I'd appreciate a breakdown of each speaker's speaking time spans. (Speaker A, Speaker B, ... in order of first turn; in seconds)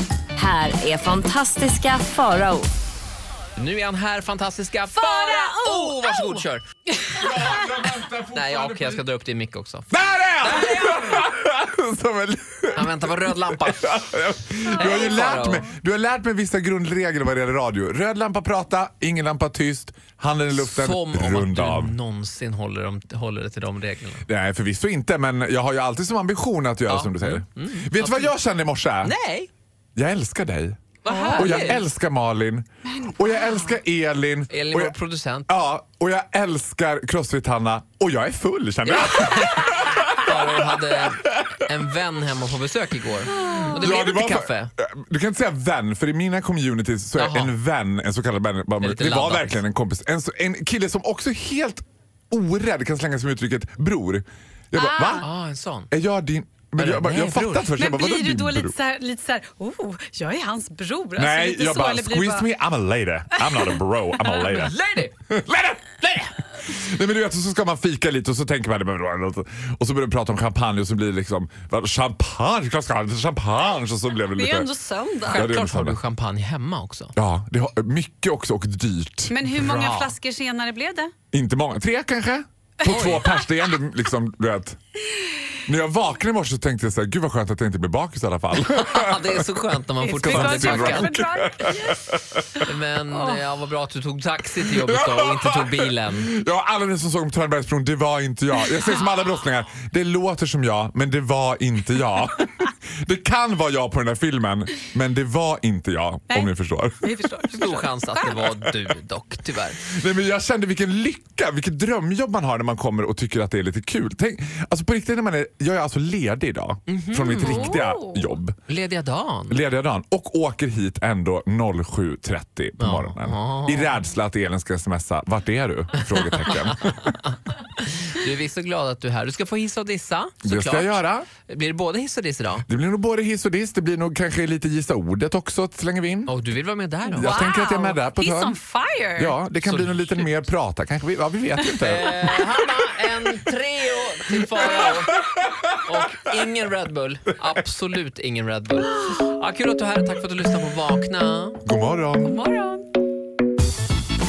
Speaker A: 0.3-2.7
Speaker B: 3.5-6.6, 8.3-9.9, 10.4-11.0, 12.7-14.0, 14.7-15.7, 20.5-24.2, 26.9-28.3, 29.0-29.5, 31.0-31.8, 34.5-35.5, 38.8-44.7, 47.1-47.5, 48.8-49.6, 55.2-55.9, 56.8-57.7, 64.5-65.1, 75.3-77.1, 79.5-80.1, 82.8-83.3, 88.6-91.1, 92.6-96.3, 107.5-109.8, 116.9-117.8, 118.7-119.6, 122.8-124.0, 126.4-132.7, 136.2-137.5, 139.6-140.3, 141.8-145.2, 145.8-151.6
Speaker C: 5.0-6.4, 14.8-15.1, 31.1-31.6, 32.9-33.2, 43.4-43.8, 54.7-55.2, 57.8-62.5, 63.4-63.7, 74.3-75.5, 79.3-81.1, 90.0-92.0, 93.1-93.4, 106.3-108.4, 117.4-118.3, 137.1-139.4, 152.2-152.8
Speaker D: 7.1-9.0, 9.9-21.9, 24.3-29.1, 29.9-34.9, 35.5-41.6, 43.7-55.2, 55.9-58.7, 61.2-64.7, 65.3-74.7, 75.3-76.0, 77.2-79.4, 81.3-84.8, 85.6-89.5, 90.2-92.7, 94.7-107.0, 109.9-118.6, 119.5-127.2, 130.4-131.3, 132.7-136.3, 137.2-138.6, 139.2-142.3, 144.9-145.8, 151.6-152.4